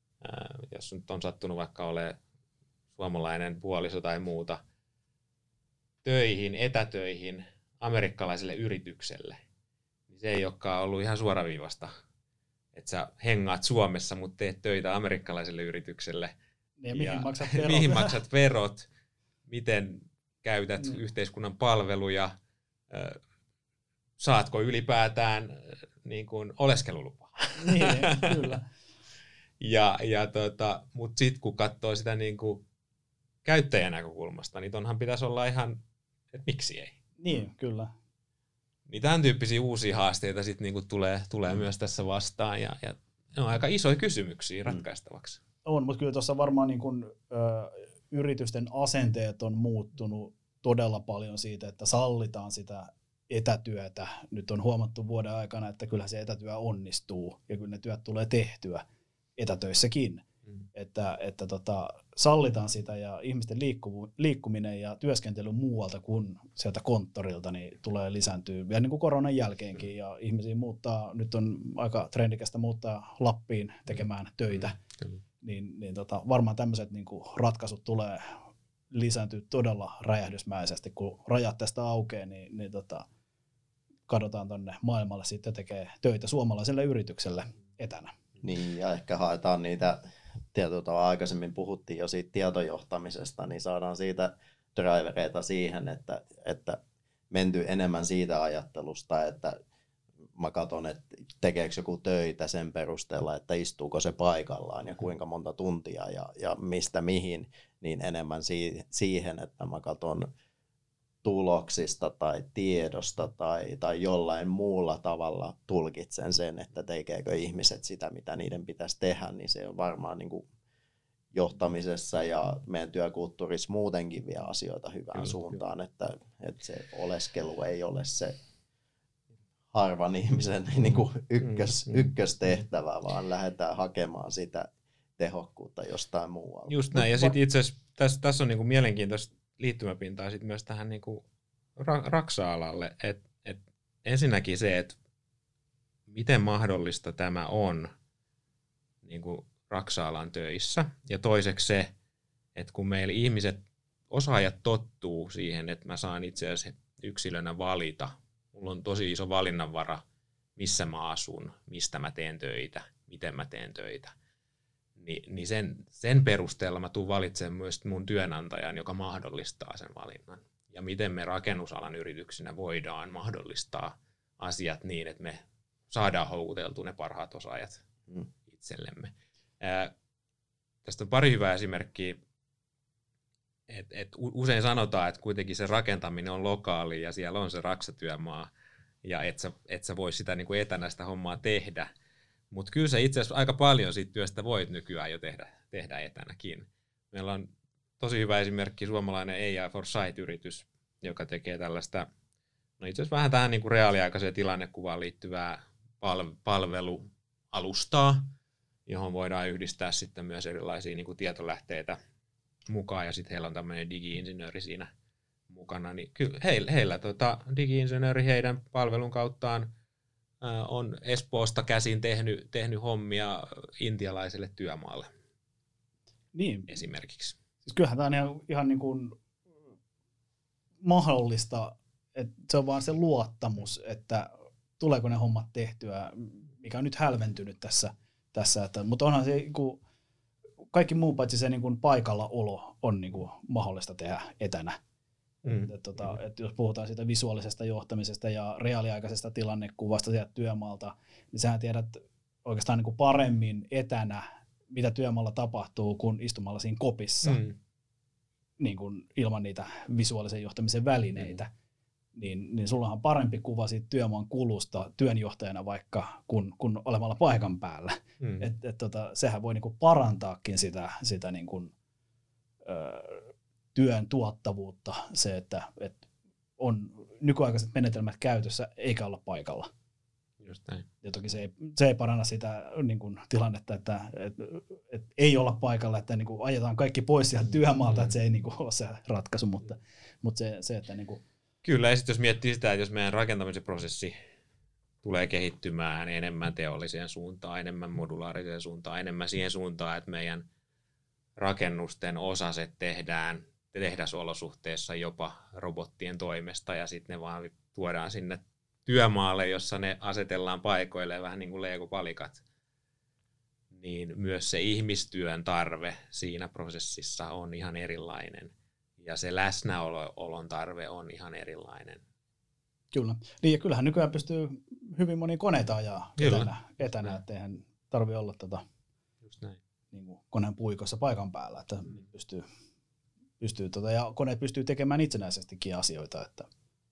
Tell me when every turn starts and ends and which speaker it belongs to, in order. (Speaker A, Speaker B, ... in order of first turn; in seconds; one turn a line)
Speaker A: 0.2-2.1
Speaker A: 3.0-4.6
Speaker A: 6.0-9.4
Speaker A: 10.1-11.9
Speaker A: 12.7-16.3
Speaker B: 16.8-18.1
Speaker A: 16.9-18.9
Speaker A: 19.5-22.3
Speaker A: 22.9-23.2
Speaker A: 24.2-28.4
Speaker B: 27.6-28.6
Speaker A: 29.6-32.6
Speaker A: 33.4-35.8
Speaker A: 36.3-37.0
Speaker B: 37.2-37.9
Speaker A: 38.9-45.4
Speaker B: 45.6-58.8
Speaker B: 59.4-74.8
Speaker B: 75.4-78.2
Speaker B: 78.9-83.1
Speaker B: 84.1-88.1
Speaker C: 88.4-90.0
Speaker C: 90.5-96.8
Speaker C: 97.3-99.6
Speaker C: 100.3-110.3
Speaker C: 111.2-120.5
Speaker C: 121.3-128.3
Speaker C: 129.7-137.3
Speaker A: 131.4-132.1
Speaker A: 136.7-141.2
Speaker A: 141.8-144.9
Speaker A: 146.1-147.9
Speaker A: 149.0-151.9
Speaker A: 152.6-160.0
Speaker A: 160.6-164.1
Speaker A: 165.0-177.8
Speaker A: 178.5-179.9
Speaker A: 180.8-182.2
Speaker A: 183.7-188.5
Speaker A: 189.0-191.9
Speaker A: 192.5-197.5
Speaker A: 198.0-202.1
Speaker A: 202.8-208.3
Speaker A: 208.9-212.0
Speaker A: 212.7-214.9
Speaker A: 215.5-219.7
Speaker A: 220.4-225.1
Speaker B: 226.3-226.7
Speaker A: 226.7-227.4
Speaker B: 227.6-229.2
Speaker B: 230.8-239.8
Speaker B: 240.7-244.8
Speaker A: 245.4-246.1
Speaker B: 245.6-257.4
Speaker A: 257.2-257.6
Speaker B: 258.6-261.5
Speaker B: 262.1-271.7
Speaker A: 268.2-268.5
Speaker B: 272.6-276.0
Speaker B: 276.6-279.7
Speaker A: 280.4-280.9
Speaker B: 281.0-291.2
Speaker A: 291.6-294.1
Speaker A: 295.0-300.4
Speaker A: 301.4-312.4
Speaker A: 313.7-322.0
Speaker B: 322.9-328.6
Speaker A: 326.2-327.2
Speaker A: 329.2-329.6
Speaker B: 329.9-332.4
Speaker B: 333.4-336.5